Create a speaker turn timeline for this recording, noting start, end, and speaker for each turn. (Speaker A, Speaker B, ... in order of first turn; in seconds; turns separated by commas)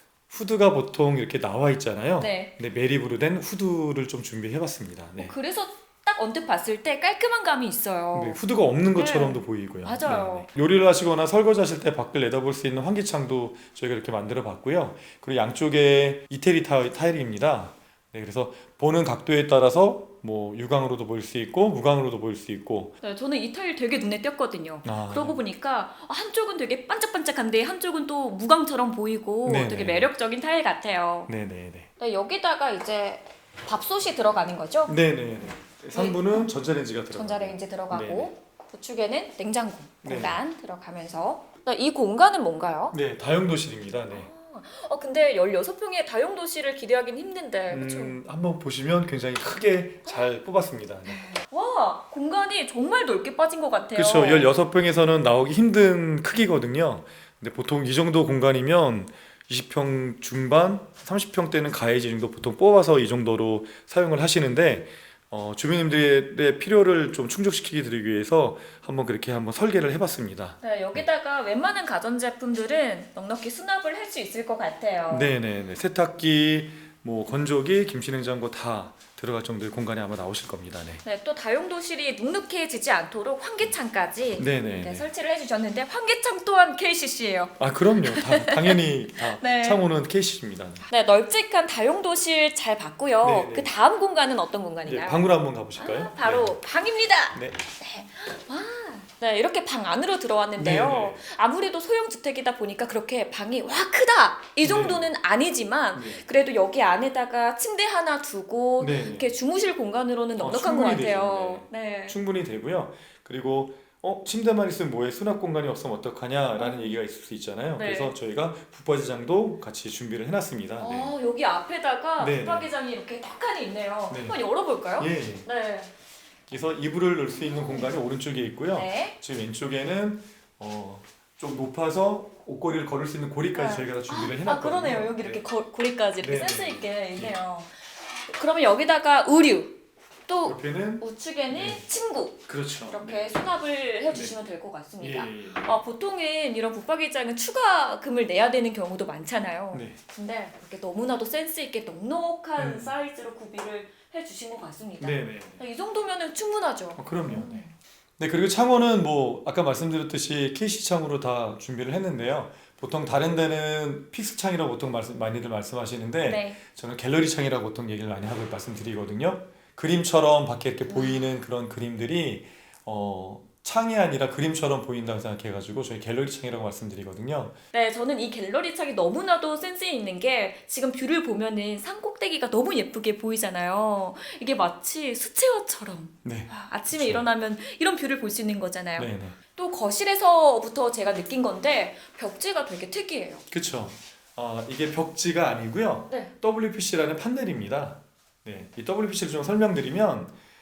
Speaker A: 0.3-5.3, Speaker B: 2.2-2.5, Speaker B: 5.2-8.4, Speaker A: 8.1-22.9, Speaker B: 8.9-10.5, Speaker B: 23.0-31.3, Speaker A: 24.8-25.4, Speaker A: 29.4-30.1, Speaker A: 31.3-31.9, Speaker B: 32.0-34.9, Speaker A: 34.9-38.3, Speaker B: 35.9-36.5, Speaker B: 37.1-43.0, Speaker A: 40.0-40.4, Speaker A: 42.9-44.3, Speaker B: 44.1-48.2, Speaker A: 47.7-51.2, Speaker B: 51.1-54.5, Speaker A: 53.9-71.0, Speaker B: 70.6-75.3, Speaker A: 75.1-81.0, Speaker B: 81.0-89.8, Speaker A: 84.4-85.1, Speaker A: 87.6-90.8, Speaker B: 90.9-95.2, Speaker A: 93.2-93.7, Speaker A: 94.8-96.5, Speaker B: 95.8-112.2, Speaker A: 97.3-97.6, Speaker A: 100.6-101.2, Speaker A: 104.6-105.1, Speaker A: 105.9-106.2, Speaker A: 108.8-109.3, Speaker A: 110.4-121.1, Speaker B: 116.6-117.0, Speaker B: 117.8-118.1, Speaker B: 120.8-125.9, Speaker A: 122.2-122.7, Speaker A: 124.1-124.4, Speaker A: 125.0-125.5, Speaker A: 126.5-135.4, Speaker B: 127.4-127.9, Speaker B: 128.7-129.2, Speaker B: 133.5-157.7, Speaker A: 136.2-137.4, Speaker A: 140.4-141.8, Speaker A: 142.5-143.3, Speaker A: 145.0-145.7, Speaker A: 149.7-150.0, Speaker A: 152.6-152.9, Speaker A: 155.0-155.6, Speaker A: 156.9-157.7, Speaker A: 158.2-177.6, Speaker B: 166.2-166.6, Speaker B: 170.9-171.3, Speaker B: 177.7-193.4, Speaker A: 186.2-187.2, Speaker A: 189.0-189.4, Speaker A: 193.5-200.3